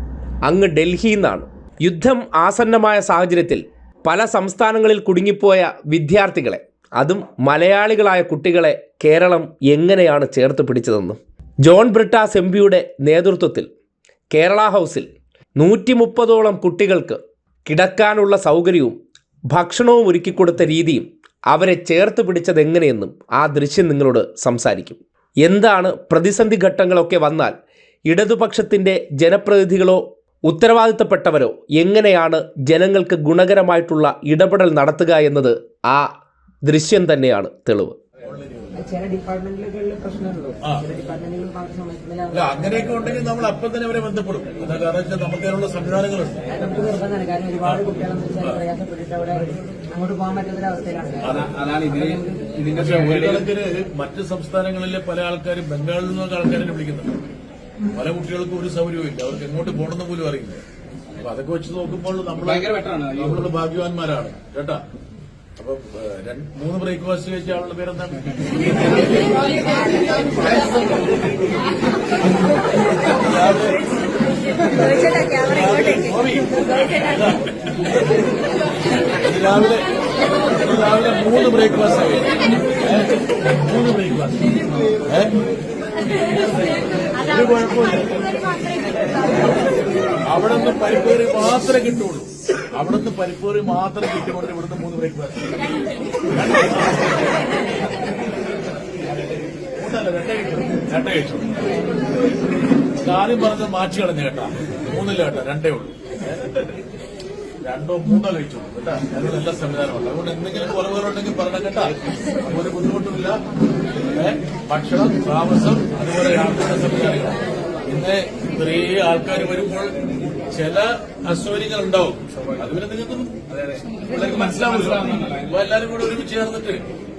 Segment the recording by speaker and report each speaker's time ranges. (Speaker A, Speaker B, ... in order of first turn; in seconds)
Speaker A: 0.5-13.7, 14.3-15.1, 15.6-18.9, 19.5-27.5, 28.1-36.1, 36.6-38.0
Speaker B: 38.2-38.9, 40.6-40.9, 42.3-46.7, 47.6-48.6, 51.2-51.5, 52.7-57.2, 57.9-60.6, 61.2-64.8, 65.6-71.6, 73.0-73.8, 74.6-78.2, 79.2-79.9, 80.5-85.3, 87.2-88.6, 90.2-95.6, 96.3-97.3, 99.8-101.7, 103.0-106.6, 107.6-113.4, 114.0-123.4, 124.0-126.9
Speaker C: 38.9-42.5, 46.6-51.4
Speaker D: 51.2-53.5, 62.4-63.5, 123.5-125.5